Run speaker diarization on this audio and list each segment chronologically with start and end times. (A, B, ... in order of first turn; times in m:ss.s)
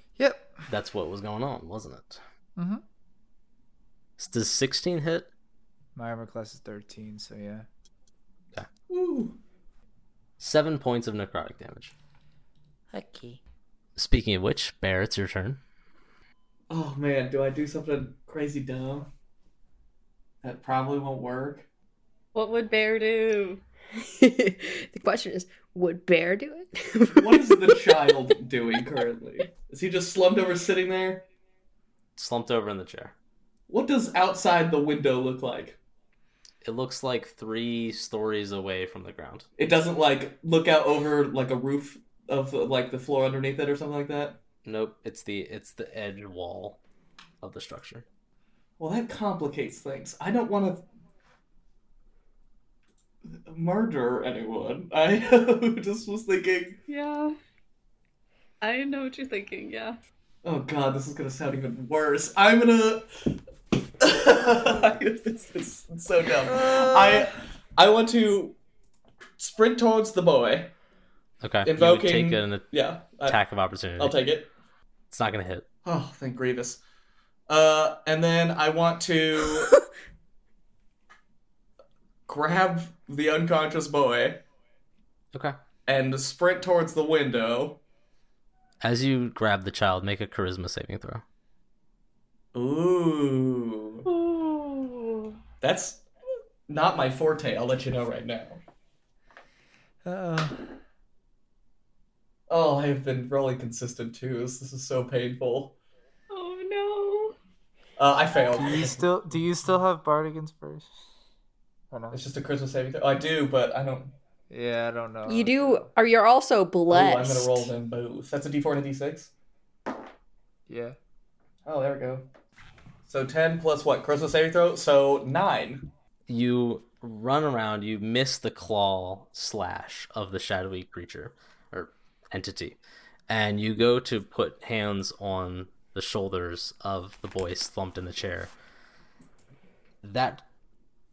0:00.2-0:00.6 A
0:00.7-0:02.2 B
0:02.6-0:02.8 A
0:04.2-0:05.3 B
0:05.9-0:07.7 A
0:08.9-0:09.4 C
0:10.4-0:11.9 B
0:12.9-0:13.4 A
0:14.0-0:15.6 B
0:16.7-0:19.1 C
0:20.4-0:21.7 C
0:22.3-0:23.6 D
0:24.0-0:28.3 E
0:27.1-0:31.2 C
0:32.2-0:33.1 B
0:33.7-0:35.8 C
0:36.6-0:39.4 B
0:39.6-0:44.4 C
0:44.6-0:46.8 B
0:47.4-0:48.0 B
0:48.8-0:50.8 C
0:53.4-0:56.8 C
0:56.9-0:57.4 D
0:58.6-1:00.0 D
1:00.4-1:03.4 C
1:04.0-1:08.6 C
1:06.6-1:07.2 A
1:09.4-1:10.7 C
1:11.4-1:14.2 B
1:11.6-1:13.4 C
1:14.0-1:14.5 C
1:15.1-1:15.6 B
1:15.8-1:16.8 C
1:17.5-1:19.8 C
1:22.3-1:24.4 C
1:25.9-1:27.8 C
1:28.8-1:31.2 B
1:32.5-1:34.1 C
1:34.0-1:35.3 D
1:35.6-1:36.0 C
1:36.7-1:38.6 C
1:40.0-1:40.7 A
1:42.5-1:45.8 C
1:46.3-1:47.4 D
1:48.0-1:49.0 C
1:48.5-1:50.9 A
1:51.9-1:52.2 A
1:52.1-1:54.1 C
1:54.5-1:55.9 A
1:55.3-1:57.7 E
1:56.9-1:59.3 C
2:00.7-2:01.0 A
2:01.6-2:02.3 C
2:03.1-2:05.9 C
2:06.3-2:12.8 B
2:13.3-2:18.5 B
2:20.0-2:20.4 B